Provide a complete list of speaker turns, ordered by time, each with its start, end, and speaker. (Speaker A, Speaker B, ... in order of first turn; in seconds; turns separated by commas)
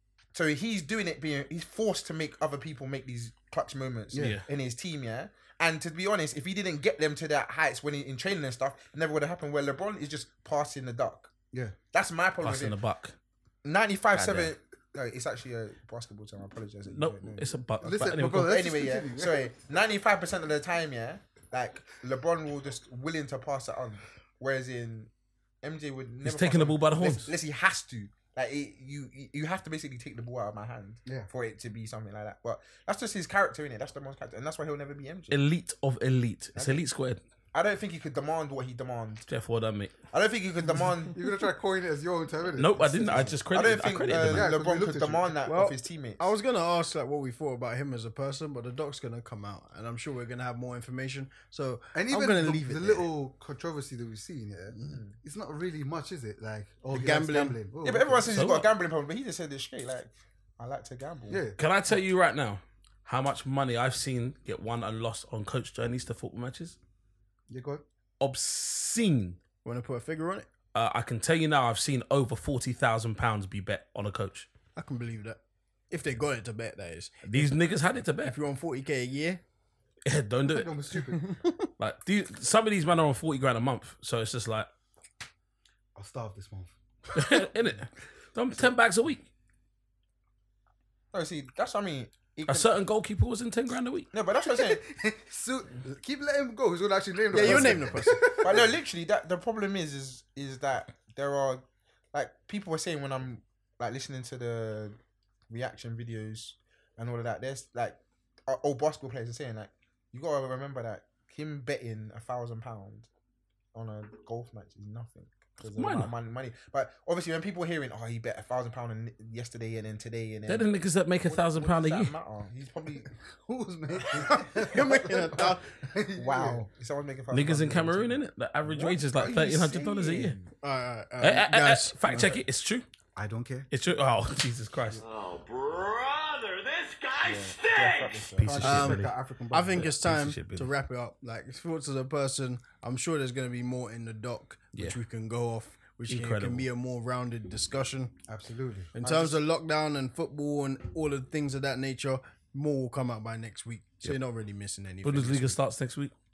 Speaker A: 0.3-11.3, Speaker B: 4.1-4.4, Speaker C: 4.2-4.4, Speaker A: 11.9-12.8, Speaker C: 12.4-13.2, Speaker A: 13.6-17.6, Speaker C: 14.1-14.6, Speaker C: 16.9-18.5, Speaker B: 17.8-19.5, Speaker A: 18.2-25.1, Speaker A: 25.6-35.4, Speaker C: 26.2-27.3, Speaker C: 35.3-37.2, Speaker A: 36.6-36.8, Speaker A: 37.5-39.3, Speaker C: 39.3-39.9, Speaker A: 40.1-41.2, Speaker B: 41.1-43.4, Speaker C: 42.5-44.5, Speaker A: 43.5-46.2, Speaker B: 44.2-45.4, Speaker D: 45.4-53.1, Speaker B: 51.9-58.4, Speaker A: 54.9-55.1, Speaker D: 56.9-57.6, Speaker A: 57.8-61.4, Speaker C: 58.3-58.7, Speaker B: 61.3-61.6, Speaker C: 61.6-66.8, Speaker B: 67.5-67.8, Speaker C: 68.2-69.4, Speaker D: 69.6-70.5, Speaker C: 70.7-74.5, Speaker D: 74.8-75.4, Speaker D: 75.9-77.5, Speaker C: 77.2-78.3, Speaker D: 78.2-79.4, Speaker C: 80.1-80.7, Speaker B: 80.5-81.3, Speaker D: 81.2-81.7, Speaker C: 81.8-84.7, Speaker B: 86.0-86.7, Speaker C: 87.1-89.3, Speaker A: 91.1-92.7, Speaker C: 92.5-94.1, Speaker A: 94.1-94.8, Speaker B: 94.5-98.8, Speaker D: 97.3-98.3, Speaker A: 97.4-105.0, Speaker A: 105.5-113.1, Speaker A: 113.7-120.7, Speaker C: 115.6-116.1, Speaker C: 120.5-122.1, Speaker A: 121.2-123.1, Speaker B: 123.4-126.6, Speaker A: 124.1-124.5, Speaker D: 124.6-125.6, Speaker A: 126.2-130.5, Speaker C: 127.3-130.4, Speaker D: 130.6-132.3, Speaker C: 131.2-132.9, Speaker B: 132.1-132.4, Speaker B: 133.2-133.7, Speaker C: 133.7-135.0, Speaker E: 135.2-138.2, Speaker A: 137.2-138.8, Speaker C: 138.4-139.1, Speaker B: 138.4-139.9, Speaker D: 138.6-148.1, Speaker C: 139.7-140.7, Speaker C: 146.1-146.7, Speaker B: 148.3-149.4, Speaker D: 148.9-155.6, Speaker C: 155.0-156.1